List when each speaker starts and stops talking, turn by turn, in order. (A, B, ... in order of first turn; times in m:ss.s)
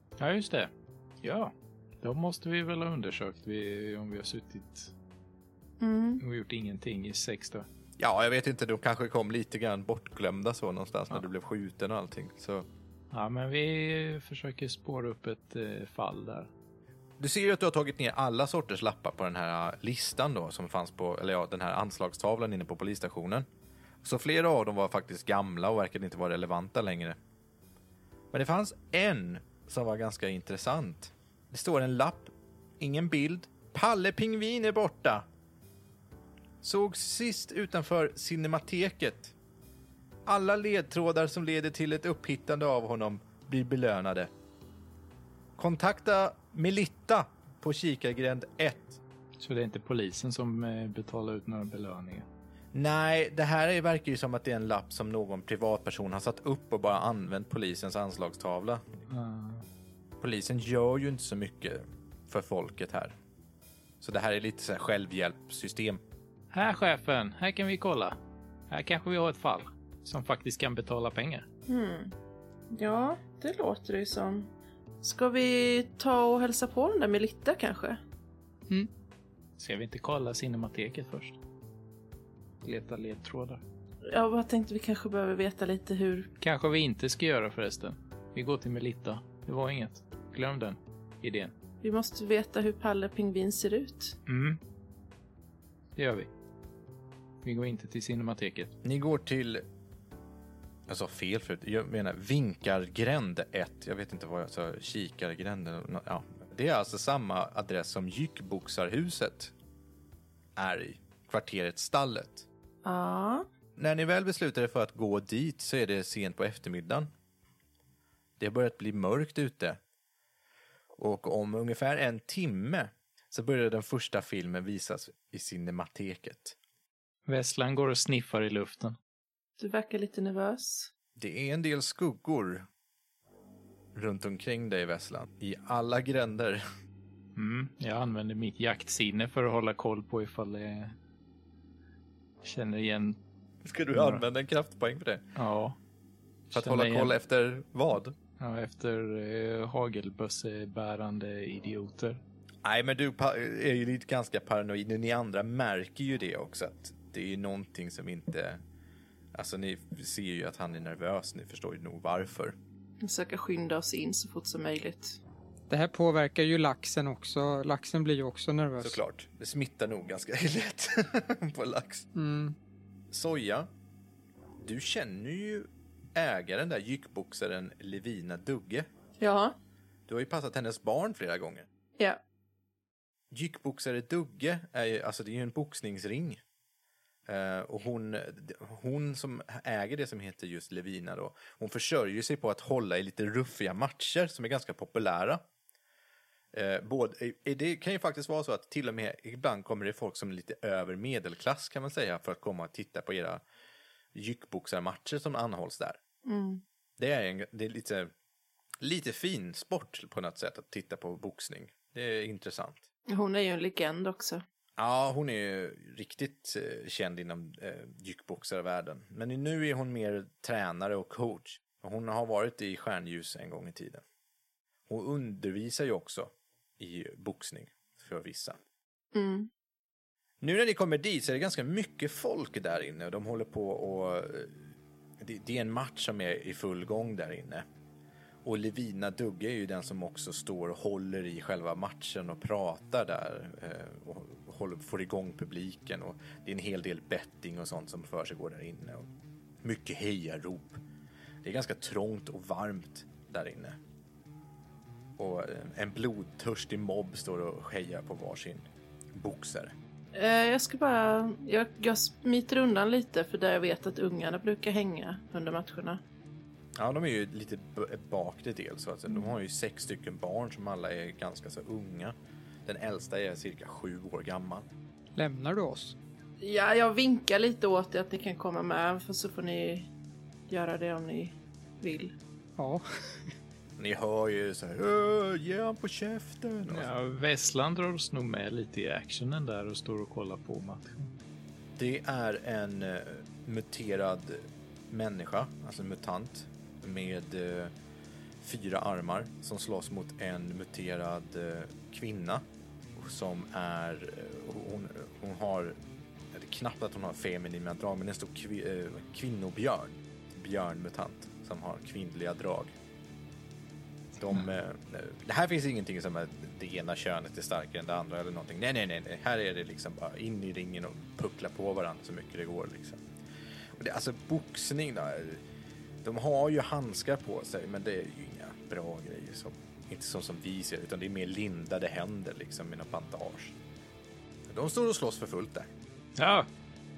0:00.2-0:00.7 A
0:01.2-0:04.9 A
0:05.8-0:06.2 B
0:06.2-0:07.6 A
0:08.0-0:12.7 C
0:13.1-0:16.5 A
0:17.2-0:23.4 C
0:24.0-0:27.2 C
0:28.3-0:35.2 C
0:36.6-0:39.3 C
0:40.2-0:44.3 C
0:45.6-0:49.0 C
0:49.4-0:52.2 A
0:52.7-0:59.0 C
0:59.1-0:59.6 A
1:00.2-1:03.2 C
1:04.0-1:06.0 C
1:06.5-1:08.2 A
1:08.7-1:11.4 A
1:11.7-1:12.1 B
1:12.7-1:14.5 B
1:15.0-1:18.0 B
1:19.6-1:21.4 A
1:22.6-1:23.6 A
1:24.1-1:26.3 B
1:26.4-1:31.5 A
1:31.8-1:34.1 B
1:34.3-1:34.6 A
1:36.0-1:36.3 A
1:37.4-1:38.7 A
1:38.8-1:39.6 C
1:40.9-1:49.5 C
1:50.6-1:52.4 C
1:52.8-1:53.4 B
1:53.8-1:57.1 C
1:58.4-1:59.8 C
2:01.0-2:06.6 C
2:07.2-2:09.0 A
2:09.6-2:10.9 B
2:11.2-2:12.6 C
2:13.9-2:16.6 C
2:17.4-2:21.0 A
2:22.4-2:23.2 A
2:23.6-2:25.2 C
2:23.9-2:24.2 A
2:25.4-2:25.8 A
2:26.5-2:27.1 A
2:26.5-2:28.1 C
2:28.4-2:32.2 A
2:32.6-2:38.6 C
2:39.3-2:42.6 C
2:43.0-2:45.2 B
2:45.7-2:49.0 D
2:48.8-2:52.1 C
2:52.1-2:52.6 D
2:53.1-2:53.7 C
2:54.6-2:58.9 C
2:59.2-2:59.6 B
3:00.1-3:01.7 C
3:03.3-3:06.4 C
3:07.2-3:15.4 C
3:16.5-3:23.4 C
3:24.1-3:26.0 C
3:26.2-3:26.6 B
3:27.0-3:28.1 C
3:28.8-3:32.8 C
3:33.1-3:34.4 B
3:34.8-3:44.0 C
3:44.9-3:48.6 C
3:49.1-3:49.5 B
3:50.4-3:54.6 C
3:55.2-3:57.6 C
3:58.4-4:09.1 C
4:09.6-4:10.8 C
4:11.4-4:13.8 C
4:15.2-4:19.7 C
4:20.1-4:26.0 B
4:26.8-4:34.6 C
4:35.1-4:36.0 D
4:36.4-4:39.9 B
4:40.5-4:42.1 B
4:42.6-4:42.8 D
4:43.8-4:46.9 C
4:46.7-4:51.1 A
4:51.8-4:57.7 C
4:58.4-5:02.4 C
5:03.0-5:05.8 C
5:06.3-5:12.7 C
5:14.2-5:23.0 C
5:23.8-5:25.4 C
5:26.0-5:33.6 C
5:34.5-5:35.7 C
5:36.2-5:36.5 A